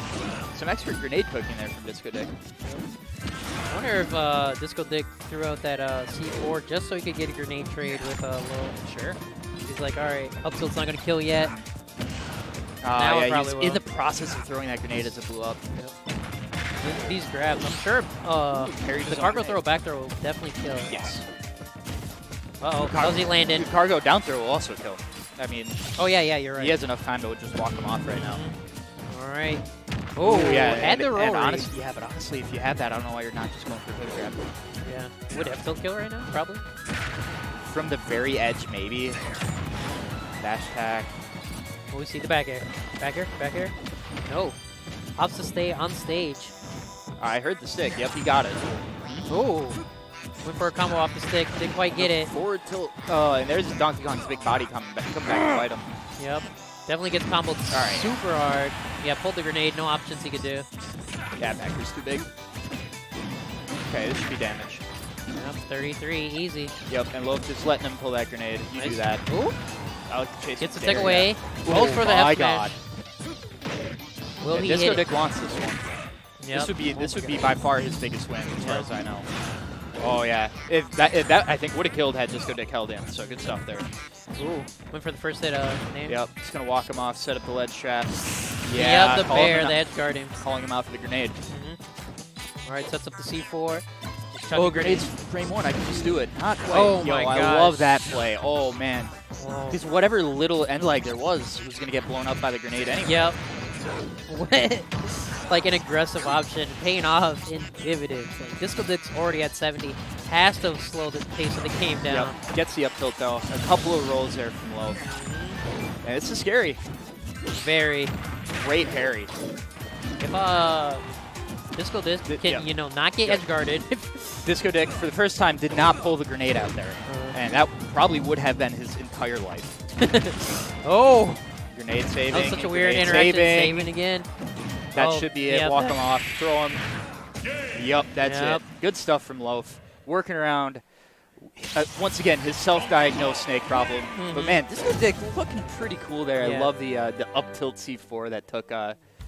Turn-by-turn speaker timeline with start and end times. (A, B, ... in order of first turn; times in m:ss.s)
0:00.5-0:02.3 A
0:03.7-0:08.8 B
0:08.8-0:09.2 A
0:09.6-0:11.5 B
0:11.4-0:11.6 A
0:12.8-0:15.6 A
0:12.9-0:13.8 B
0:16.8-0:21.2 B
0:18.5-0:19.6 A
0:20.8-0:21.2 A
0:22.6-0:23.7 B
0:22.8-0:26.0 A
0:26.0-0:26.8 B
0:26.5-0:28.4 A
0:28.0-0:31.7 B
0:30.2-0:34.4 A
0:34.8-0:36.6 B
0:37.6-0:39.2 A
0:40.4-0:41.2 A
0:41.9-0:44.6 B
0:45.2-0:46.5 B
0:47.2-0:49.3 A
0:49.2-0:49.8 B
0:50.4-0:52.3 B
0:51.9-0:55.9 A
0:56.2-1:00.7 B
0:57.7-0:58.1 A
1:01.4-1:02.3 A
1:03.7-1:04.8 A
1:05.3-1:06.7 B
1:06.9-1:09.3 A
1:08.7-1:09.6 B
1:10.0-1:12.7 A
1:10.6-1:12.8 B
1:14.4-1:15.1 B
1:14.5-1:19.3 A
1:16.4-1:17.5 B
1:18.6-1:18.9 B
1:20.0-1:24.7 A
1:23.2-1:23.5 B
1:24.4-1:26.2 B
1:26.0-1:31.4 A
1:28.7-1:30.4 B
1:31.5-1:31.8 B
1:32.6-1:35.1 B
1:34.5-1:39.2 A
1:36.7-1:38.0 B
1:39.4-1:39.8 B
1:39.7-1:43.2 A
1:43.0-1:43.4 B
1:44.3-1:52.4 B
1:52.1-1:55.0 A
1:55.0-1:55.6 B
1:56.0-1:56.8 A
1:57.5-1:58.2 B
1:58.5-1:59.3 A
2:00.2-2:01.1 B
2:01.7-2:04.5 B
2:02.2-2:02.7 A
2:04.4-2:09.8 A
2:07.0-2:07.4 B
2:10.0-2:11.6 B
2:11.7-2:13.9 A
2:12.3-2:14.3 B
2:14.9-2:16.0 B
2:14.9-2:16.9 A
2:17.7-2:29.0 A
2:18.2-2:18.6 B
2:24.1-2:24.6 B
2:26.4-2:26.7 B